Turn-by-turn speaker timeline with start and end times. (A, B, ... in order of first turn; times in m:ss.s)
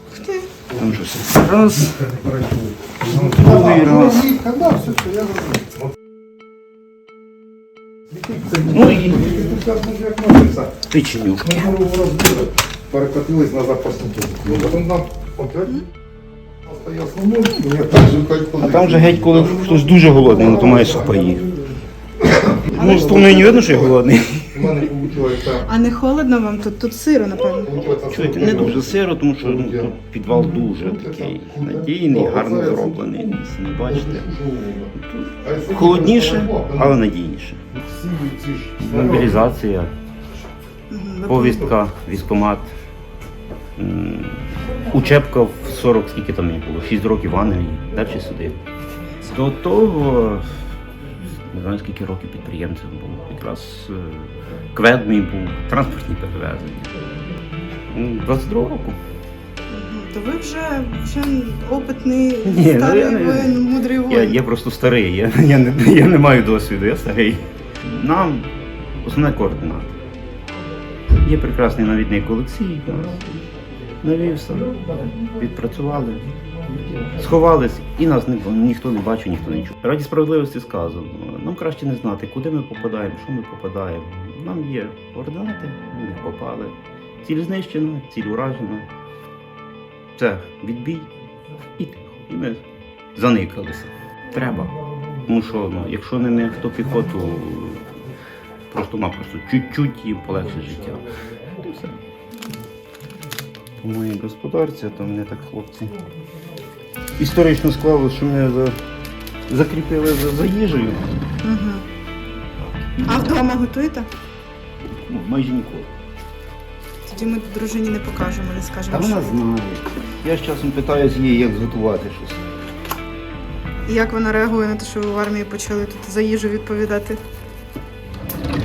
0:00.1-0:00.5 A
0:00.7-0:05.8 B
0:00.8-0:02.0 C
0:03.1-0:04.3 C
0:08.1-0:10.8 B
0:08.7-0:09.5 C
0:10.8-0:11.6 C
0:11.4-0:15.7 B
0:14.5-0:14.8 C
0:16.6-0:25.6 B
0:18.6-0:21.4 C
0:22.7-0:23.2 A
0:22.7-0:24.8 C
0:25.6-0:28.0 A
0:27.6-0:37.0 B
0:28.0-0:34.3 C
0:35.0-0:37.7 C
0:37.7-0:39.4 B
0:38.8-0:39.9 C
0:40.9-0:41.7 A
0:41.2-0:42.7 C
0:43.8-0:48.6 C
0:49.2-0:50.6 C
0:51.2-0:56.9 C
0:57.9-0:59.0 C
0:59.7-1:04.4 A
1:02.4-1:10.0 C
1:11.1-1:13.4 C
1:14.0-1:16.2 C
1:14.5-1:15.4 B
1:16.4-1:17.2 B
1:17.1-1:28.9 C
1:30.2-1:31.1 C
1:31.6-1:32.6 C
1:33.1-1:37.9 C
1:38.7-1:41.1 C
1:40.5-1:41.6 B
1:41.6-1:42.0 C
1:43.8-1:45.9 C
1:47.2-1:48.8 C
1:49.5-1:51.1 C
1:51.4-1:51.8 A
1:53.0-1:53.4 C
1:53.0-1:54.1 A
1:55.0-1:55.9 C
1:57.0-1:59.4 A
1:58.9-2:02.5 C
2:03.8-2:07.2 A